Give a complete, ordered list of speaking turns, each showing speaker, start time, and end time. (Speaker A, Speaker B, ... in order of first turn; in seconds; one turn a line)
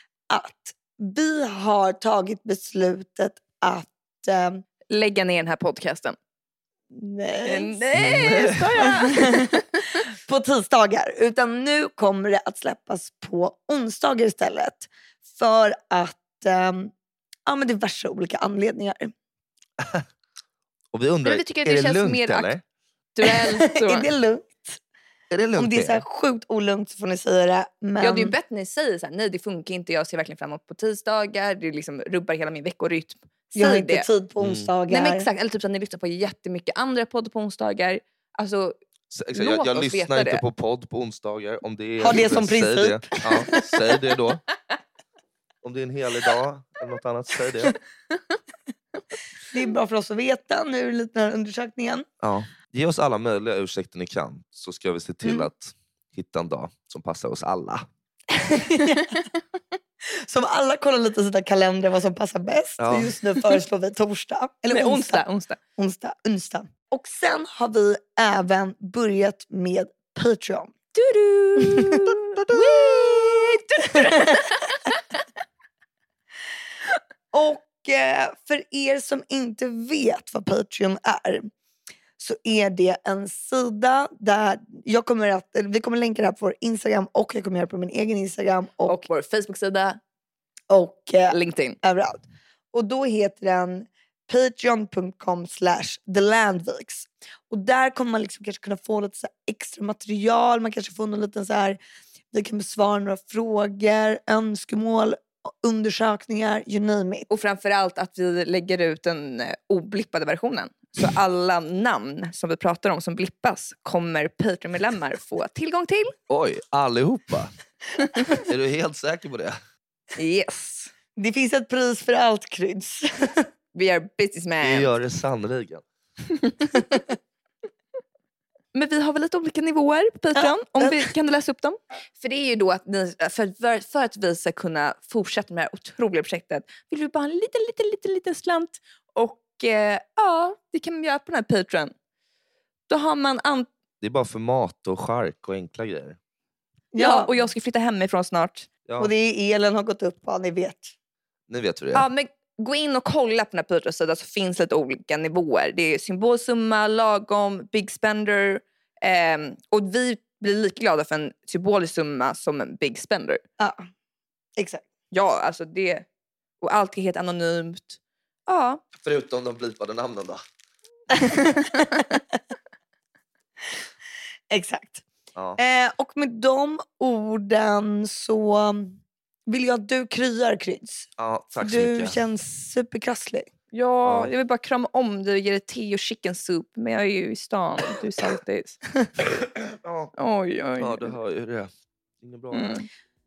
Speaker A: 0.3-4.6
Speaker B: 4.9-6.2
Speaker A: 6.9-7.8
Speaker B: 7.4-10.0
Speaker C: 8.0-8.6
Speaker A: 8.8-16.9
Speaker A: 17.5-19.1
Speaker C: 19.8-20.0
Speaker C: 20.9-22.6
Speaker B: 21.2-22.5
Speaker B: 23.1-24.1
Speaker A: 23.2-24.8
Speaker C: 25.3-26.0
Speaker A: 25.6-28.3
Speaker B: 28.0-34.1
Speaker A: 33.5-35.3
Speaker C: 34.4-34.7
Speaker B: 34.9-38.8
Speaker C: 39.1-44.4
Speaker B: 39.3-40.4
Speaker A: 42.0-43.8
Speaker C: 45.6-47.8
Speaker A: 49.5-52.0
Speaker C: 52.2-57.9
Speaker A: 58.4-59.2
Speaker A: 60.1-65.2
Speaker C: 62.8-63.2
Speaker B: 64.7-65.6
Speaker A: 65.8-70.7
Speaker B: 70.9-75.0
Speaker A: 71.6-72.1
Speaker A: 73.9-74.5
Speaker A: 77.3-81.5
Speaker A: 82.2-89.0
Speaker B: 88.9-90.0
Speaker A: 90.7-101.8
Speaker B: 91.3-91.8
Speaker A: 102.3-107.3
Speaker B: 107.3-116.1
Speaker C: 116.3-117.5
Speaker C: 118.4-119.6
Speaker B: 120.2-120.9
Speaker A: 121.2-123.5
Speaker B: 123.7-124.9
Speaker C: 124.6-125.8
Speaker B: 126.4-126.9
Speaker B: 128.7-141.9
Speaker A: 130.4-131.0
Speaker B: 142.9-143.7
Speaker C: 144.0-146.2
Speaker A: 146.9-147.3
Speaker B: 146.9-148.7
Speaker C: 148.8-149.1
Speaker A: 149.0-150.9
Speaker C: 151.5-152.1
Speaker B: 151.9-163.4
Speaker A: 164.6-164.8
Speaker B: 165.1-166.1
Speaker B: 166.6-168.8
Speaker C: 169.0-170.4
Speaker A: 171.2-172.2
Speaker B: 171.3-172.0
Speaker A: 174.5-175.0
Speaker A: 175.6-183.5
Speaker C: 181.2-182.2
Speaker B: 183.7-188.8
Speaker C: 184.0-184.3
Speaker C: 189.2-190.1
Speaker B: 190.2-191.1
Speaker C: 190.8-191.7
Speaker C: 192.2-192.8
Speaker B: 192.5-192.9